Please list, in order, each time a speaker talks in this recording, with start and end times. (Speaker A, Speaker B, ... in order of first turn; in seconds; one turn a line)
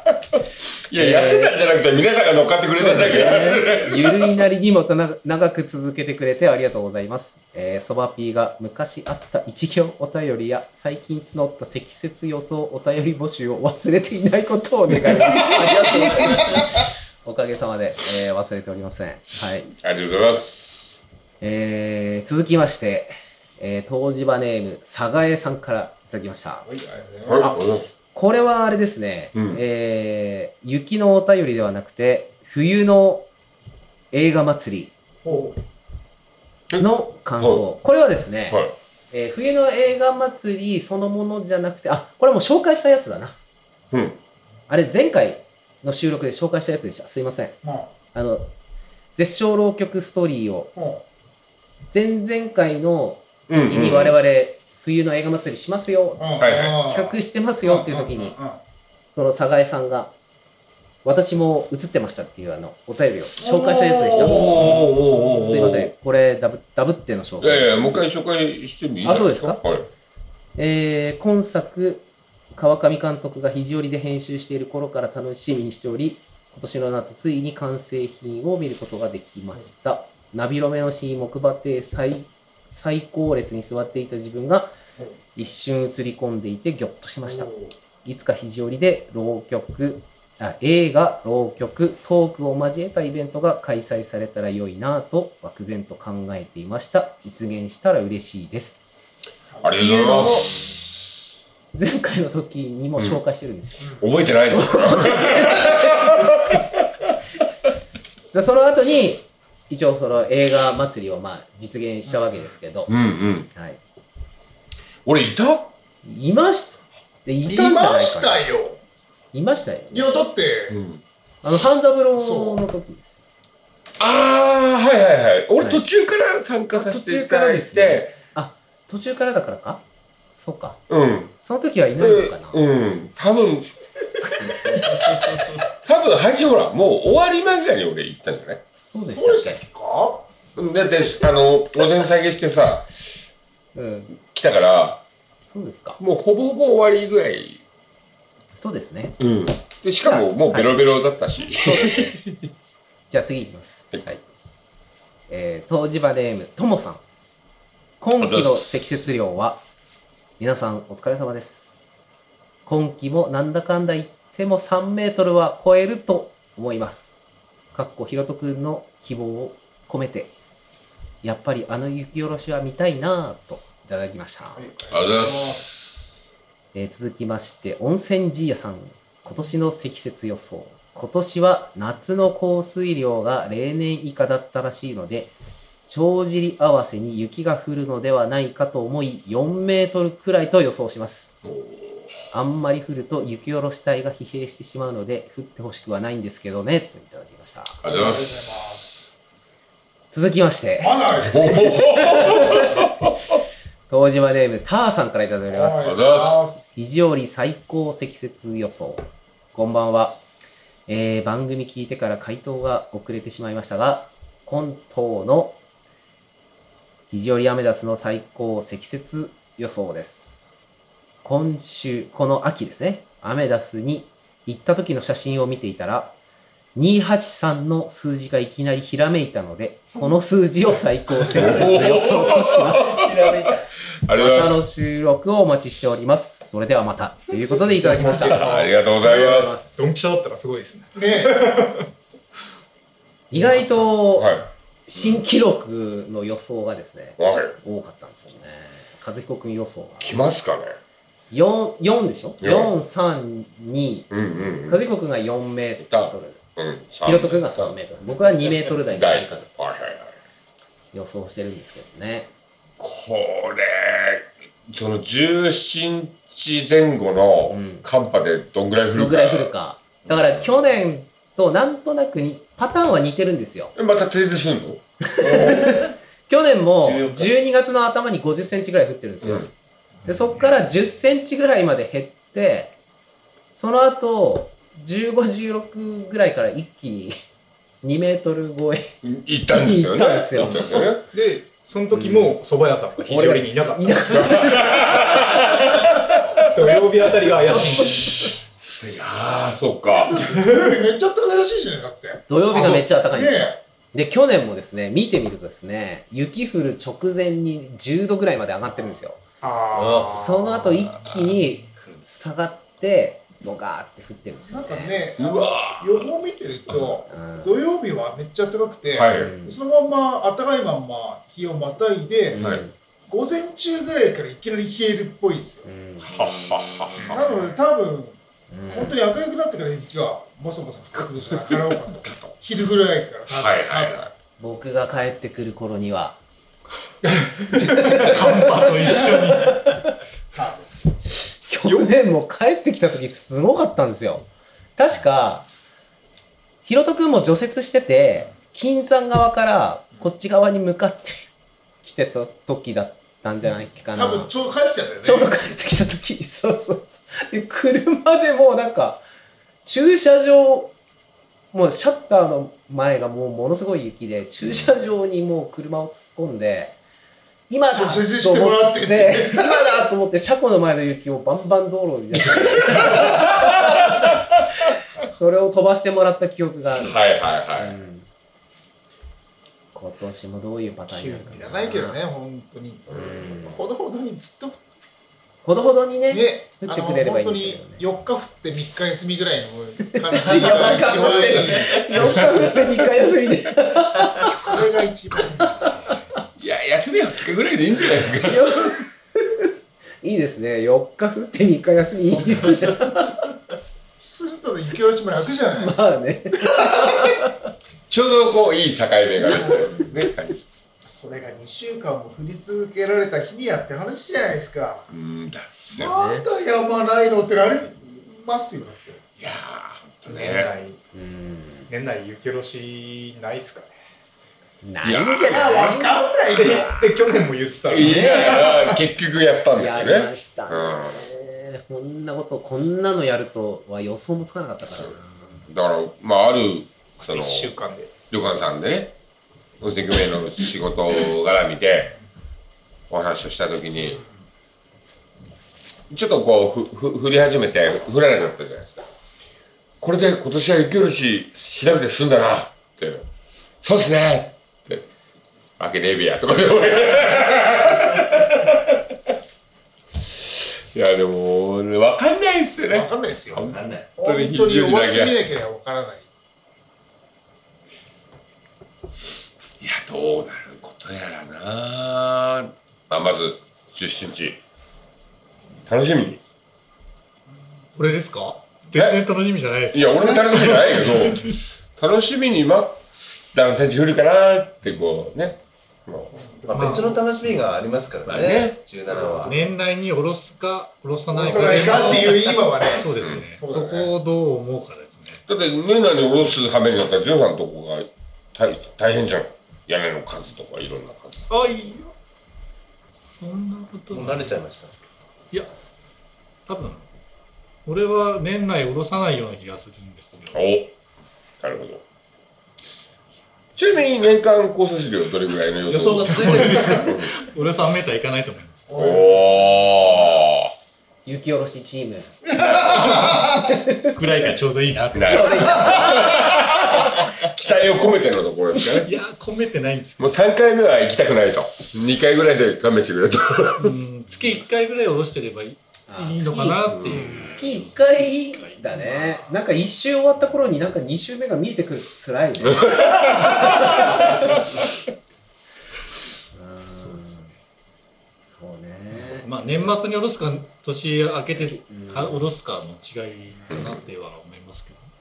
Speaker A: 0.9-4.4
Speaker B: 0.9-1.6
Speaker B: 2.8-19.7
Speaker A: 19.7-21.0
Speaker B: 21.4-26.7
Speaker C: 26.6-27.8
Speaker A: 27.2-27.9
Speaker B: 27.4-33.3
Speaker A: 29.3-29.6
Speaker B: 34.1-34.9
Speaker C: 35.2-35.5
Speaker B: 36.8-43.4
Speaker A: 37.4-37.6
Speaker A: 38.5-38.7
Speaker A: 43.9-44.2
Speaker B: 44.7-47.6
Speaker C: 47.6-47.9
Speaker B: 48.1-48.5
Speaker B: 49.1-50.7
Speaker C: 50.8-51.0
Speaker B: 51.9-58.4
Speaker A: 53.5-54.2
Speaker C: 56.2-58.6
Speaker A: 56.4-56.8
Speaker B: 59.1-60.1
Speaker B: 61.0-68.1
Speaker A: 63.4-65.9
Speaker C: 63.6-64.7
Speaker A: 67.4-69.9
Speaker B: 69.0-69.6
Speaker B: 70.5-84.7
Speaker B: 85.3-87.5
Speaker C: 87.3-87.7
Speaker B: 88.0-98.8
Speaker C: 99.5-100.5
Speaker A: 99.6-100.8
Speaker B: 101.7-106.4
Speaker A: 104.0-106.7
Speaker B: 108.3-112.9
Speaker A: 112.9-113.5
Speaker B: 113.5-113.8
Speaker A: 115.0-115.7
Speaker B: 116.0-118.4
Speaker C: 117.5-118.8
Speaker B: 119.3-120.2
Speaker C: 119.9-120.8
Speaker A: 120.7-121.0
Speaker B: 121.4-123.2
Speaker C: 122.2-122.6
Speaker A: 124.0-128.2
Speaker B: 126.7-129.8
Speaker B: 130.4-130.8
Speaker A: 130.9-131.3
Speaker B: 131.4-132.6
Speaker A: 132.0-133.7
Speaker B: 134.4-134.9
Speaker A: 134.4-138.6
Speaker B: 138.8-139.6
Speaker C: 139.0-140.2
Speaker A: 140.6-142.9
Speaker B: 143.7-144.1
Speaker A: 144.2-145.0
Speaker B: 145.5-146.0
Speaker A: 146.0-147.6
Speaker B: 148.5-149.2
Speaker A: 149.2-152.2
Speaker B: 150.0-150.8
Speaker B: 151.6-152.2
Speaker B: 153.1-154.2
Speaker B: 155.3-157.0
Speaker B: 158.0-159.6
Speaker A: 158.2-159.0
Speaker B: 160.4-161.8
Speaker B: 162.7-167.1
Speaker B: 167.7-170.3
Speaker B: 171.2-174.6
Speaker C: 174.6-175.6
Speaker A: 174.9-176.1
Speaker B: 176.7-185.3
Speaker B: 185.9-191.3
Speaker A: 191.4-192.1
Speaker B: 192.3-197.8
Speaker A: 197.8-198.9
Speaker C: 197.8-198.9
Speaker B: 200.1-202.9
Speaker C: 200.8-201.7
Speaker A: 201.2-203.4
Speaker B: 203.9-206.0
Speaker C: 205.5-206.7
Speaker A: 205.8-206.4
Speaker B: 206.7-210.2
Speaker B: 210.9-215.6
Speaker B: 217.1-220.4
Speaker B: 221.2-226.1
Speaker B: 226.7-233.0
Speaker A: 231.3-233.5
Speaker D: 232.8-233.6
Speaker A: 234.1-234.6
Speaker B: 234.1-239.9
Speaker E: 237.8-238.7
Speaker A: 238.0-239.6
Speaker D: 238.1-238.5
Speaker E: 239.8-241.9
Speaker C: 240.9-241.7
Speaker B: 243.3-250.2
Speaker A: 244.1-244.4
Speaker A: 247.2-247.6
Speaker A: 250.0-250.8
Speaker B: 251.3-256.4
Speaker A: 252.4-252.7
Speaker A: 254.1-254.8
Speaker A: 255.8-257.8
Speaker B: 257.0-259.3
Speaker A: 258.6-260.1
Speaker B: 260.9-262.3
Speaker A: 262.8-269.5
Speaker B: 267.5-267.8
Speaker B: 268.9-273.7
Speaker A: 273.7-274.8
Speaker B: 275.1-279.5
Speaker D: 275.4-275.7
Speaker D: 276.8-277.3
Speaker A: 279.2-279.5
Speaker B: 280.0-282.8
Speaker B: 283.6-287.1
Speaker B: 287.8-288.9
Speaker A: 289.0-291.1
Speaker B: 289.5-290.9
Speaker E: 291.1-294.3
Speaker B: 291.9-292.4
Speaker B: 293.0-295.6
Speaker A: 294.1-296.8
Speaker E: 296.5-298.2
Speaker B: 297.5-298.3
Speaker A: 298.6-300.3
Speaker C: 299.9-303.6
Speaker B: 302.3-309.2
Speaker C: 309.4-310.5
Speaker D: 309.7-310.5
Speaker B: 310.1-315.0
Speaker C: 314.5-322.4
Speaker A: 315.2-316.1
Speaker B: 317.1-317.5
Speaker A: 318.9-319.3
Speaker B: 319.1-319.6
Speaker B: 322.3-322.7
Speaker A: 322.4-322.6
Speaker C: 323.1-325.7
Speaker B: 325.6-326.1
Speaker A: 326.0-327.2
Speaker C: 327.1-334.0
Speaker B: 328.5-329.0
Speaker A: 332.0-332.4
Speaker A: 333.3-334.1
Speaker B: 334.4-336.2
Speaker E: 337.0-339.2
Speaker B: 337.8-339.9
Speaker F: 337.8-339.5
Speaker C: 340.3-340.7
Speaker B: 341.5-345.4
Speaker B: 346.6-351.3
Speaker B: 351.8-354.3
Speaker C: 353.9-355.3
Speaker B: 355.0-359.0
Speaker B: 359.6-360.7
Speaker B: 361.5-366.8
Speaker B: 367.5-374.1
Speaker C: 367.7-369.6
Speaker A: 372.6-374.1
Speaker B: 374.9-377.0
Speaker A: 376.8-377.7
Speaker B: 377.6-378.1
Speaker B: 379.7-382.0
Speaker E: 380.9-381.3
Speaker C: 381.3-384.6
Speaker A: 382.9-383.3
Speaker B: 382.9-383.6
Speaker B: 385.4-387.8
Speaker C: 386.1-392.3
Speaker B: 389.9-394.6
Speaker C: 394.2-395.8
Speaker B: 395.6-395.9
Speaker A: 396.4-398.8
Speaker B: 398.2-399.5
Speaker B: 400.0-403.2
Speaker C: 402.1-403.0
Speaker C: 404.0-405.8
Speaker B: 405.6-407.1
Speaker C: 406.6-406.9
Speaker A: 407.9-410.4
Speaker C: 409.2-409.8
Speaker C: 410.8-414.9
Speaker A: 414.9-416.0
Speaker C: 415.7-419.0
Speaker B: 415.8-416.2
Speaker A: 419.2-420.5
Speaker E: 420.1-420.8
Speaker B: 420.9-421.7
Speaker E: 421.7-423.7
Speaker B: 424.6-426.5
Speaker A: 424.8-425.7
Speaker C: 425.2-426.7
Speaker E: 426.3-428.8
Speaker A: 427.7-431.0
Speaker B: 427.8-428.4
Speaker B: 429.6-435.4
Speaker A: 435.4-437.5
Speaker E: 437.0-437.9
Speaker A: 438.1-438.9
Speaker A: 439.6-441.9
Speaker A: 442.9-444.0
Speaker A: 445.9-448.8
Speaker A: 449.8-453.1
Speaker A: 453.6-454.9
Speaker A: 455.6-458.8
Speaker A: 460.0-465.2
Speaker C: 462.7-466.1
Speaker D: 463.4-463.9
Speaker A: 469.6-474.4
Speaker A: 475.6-476.2
Speaker F: 477.8-481.4
Speaker A: 478.7-479.0
Speaker A: 479.7-482.8
Speaker A: 483.3-486.1
Speaker C: 486.3-486.8
Speaker D: 486.5-489.4
Speaker F: 486.5-486.9
Speaker A: 488.1-488.6
Speaker B: 488.9-489.3
Speaker F: 489.2-495.2
Speaker C: 491.1-493.9
Speaker A: 493.0-493.2
Speaker A: 495.3-501.3
Speaker F: 501.3-501.8
Speaker F: 503.0-504.4
Speaker D: 503.9-504.8
Speaker F: 506.4-506.9
Speaker F: 507.6-510.4
Speaker A: 510.3-510.7
Speaker A: 511.4-511.8
Speaker A: 513.5-517.1
Speaker D: 515.7-516.9
Speaker F: 516.0-518.9
Speaker C: 518.7-519.7
Speaker A: 518.7-520.5
Speaker B: 521.0-524.0
Speaker F: 522.5-523.3
Speaker F: 523.9-526.0
Speaker A: 524.9-528.9
Speaker B: 525.0-526.8
Speaker F: 528.7-530.1
Speaker A: 530.0-533.7
Speaker F: 533.6-539.4
Speaker B: 535.9-544.4
Speaker A: 542.4-543.9
Speaker B: 546.3-547.3
Speaker F: 546.7-547.2
Speaker B: 548.3-549.3
Speaker F: 549.0-554.9
Speaker B: 551.4-552.2
Speaker A: 553.5-553.8